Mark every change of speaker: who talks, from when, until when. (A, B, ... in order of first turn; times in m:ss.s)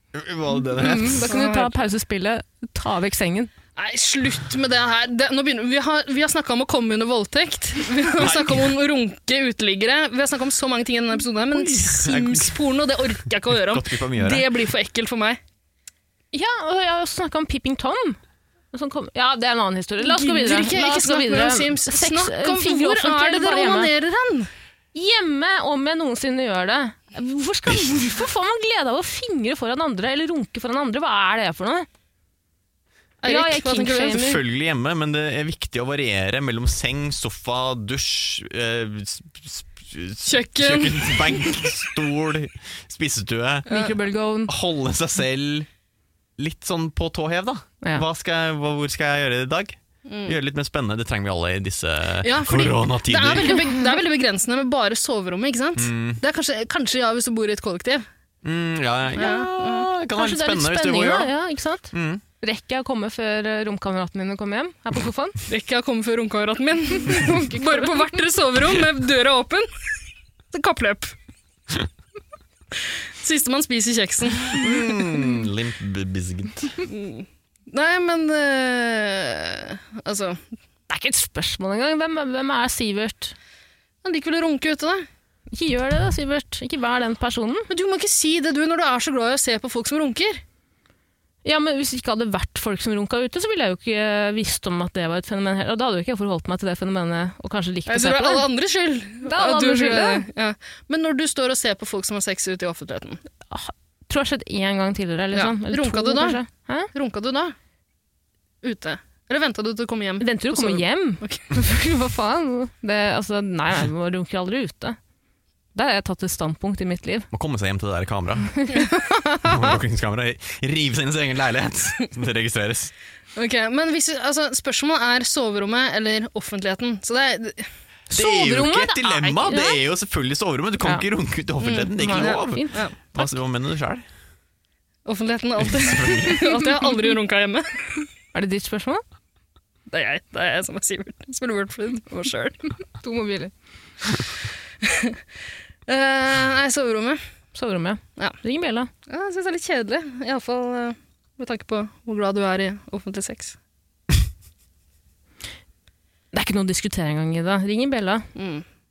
0:00.1-0:01.2 A
0:00.8-0:03.5 B
0:01.2-0:01.8 C
0:03.8-0:15.4 C
0:08.2-0:08.7 A
0:11.5-0:12.6 A
0:13.5-0:14.4 A
0:16.3-0:18.2 B
0:18.7-0:23.9 B
0:20.0-0:24.5 C
0:24.9-0:31.9 B
0:33.2-0:34.1 C
0:33.2-0:34.4 B
0:34.1-0:43.7 A
0:40.2-0:41.7 C
0:43.7-0:43.9 C
0:43.7-0:44.5 B
0:44.5-0:45.7 A
0:46.4-0:53.6 A
0:50.0-0:50.4 C
0:52.2-0:58.0 C
0:55.8-0:56.2 A
0:58.4-1:01.3 A
0:59.1-0:59.9 C
1:00.1-1:05.4 B
1:01.9-1:02.2 A
1:05.5-1:09.7 C
1:07.1-1:07.8 B
1:10.5-1:11.1 C
1:12.8-1:14.6 C
1:14.4-1:16.8 A
1:16.8-1:20.4 C
1:20.9-1:23.3 B
1:24.0-1:25.1 C
1:25.5-1:27.7 B
1:27.7-1:30.4 C
1:31.4-1:38.5 B
1:37.9-1:43.2 C
1:39.2-1:40.2 B
1:43.5-1:46.9 B
1:45.3-1:46.4 C
1:46.9-1:47.5 C
1:48.6-1:51.4 C
1:50.2-1:55.0 B
1:55.7-1:57.3 B
1:57.3-1:58.6 A
1:58.6-1:59.5 B
1:59.4-2:02.9 A
2:03.4-2:07.7 C
2:08.1-2:09.8 B
2:08.1-2:14.0 A
2:11.6-2:13.3 B
2:12.1-2:13.0 C
2:15.0-2:18.0 C
2:15.6-2:16.5 A
2:18.3-2:19.0 B
2:19.9-2:22.6 C
2:23.0-2:23.5 B
2:24.8-2:25.2 C
2:25.9-2:27.2 C
2:27.5-2:28.9 B
2:29.1-2:33.6 C
2:36.3-2:38.2 B
2:38.3-2:38.6 C